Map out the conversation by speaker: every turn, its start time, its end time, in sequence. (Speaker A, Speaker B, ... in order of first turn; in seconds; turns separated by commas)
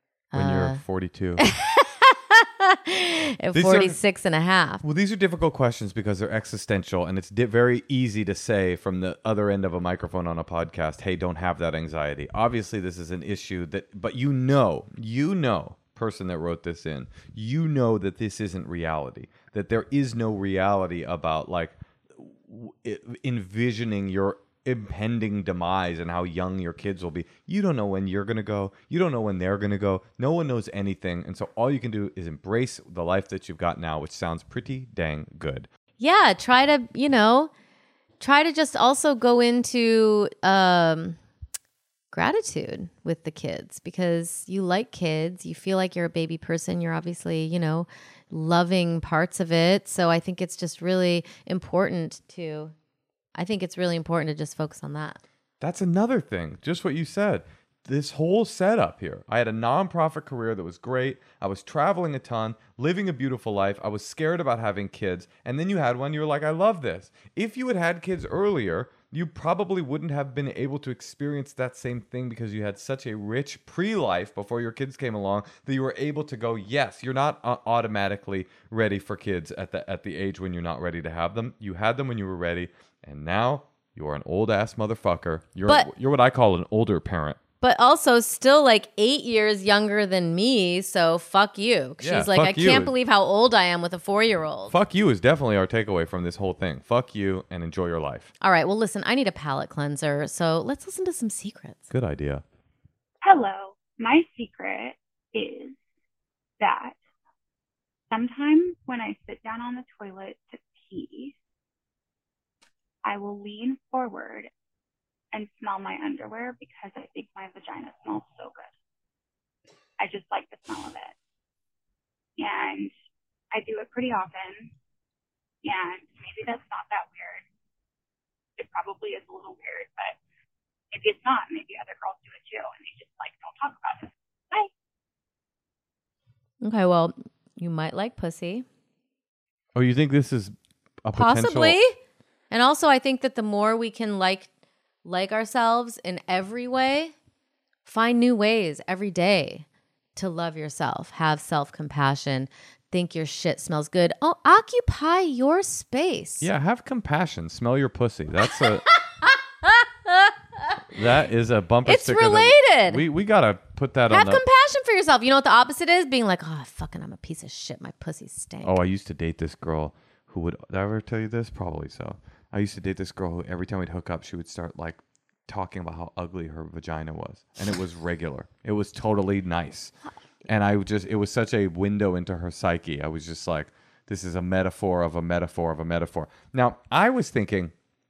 Speaker A: 0.3-0.8, Speaker B: 0.3-1.4, Speaker A: 1.4-4.8, Speaker B: 3.5-4.0, Speaker B: 4.8-35.7, Speaker A: 36.0-37.5, Speaker A: 38.2-41.2, Speaker A: 42.1-52.7, Speaker A: 53.4-55.2, Speaker B: 55.6-87.4, Speaker A: 87.6-94.8, Speaker B: 92.0-92.9, Speaker B: 94.7-98.3, Speaker A: 98.4-101.9, Speaker B: 101.9-102.4, Speaker C: 103.2-105.8, Speaker C: 106.6-107.0, Speaker C: 108.1-111.3, Speaker C: 113.0-114.5, Speaker C: 115.3-118.7, Speaker C: 120.0-121.2, Speaker C: 122.4-122.9, Speaker C: 123.5-124.7, Speaker C: 125.6-127.5, Speaker C: 128.6-130.2, Speaker C: 130.9-134.7, Speaker A: 136.6-138.7, Speaker B: 139.8-141.8, Speaker A: 141.1-141.9, Speaker A: 142.5-144.5, Speaker A: 145.0-147.1, Speaker A: 147.9-156.5, Speaker B: 156.4-158.8, Speaker A: 158.5-160.8, Speaker B: 160.9-164.4, Speaker A: 161.8-163.1, Speaker A: 164.1-168.8, Speaker B: 168.6-179.9, Speaker B: 180.5-187.7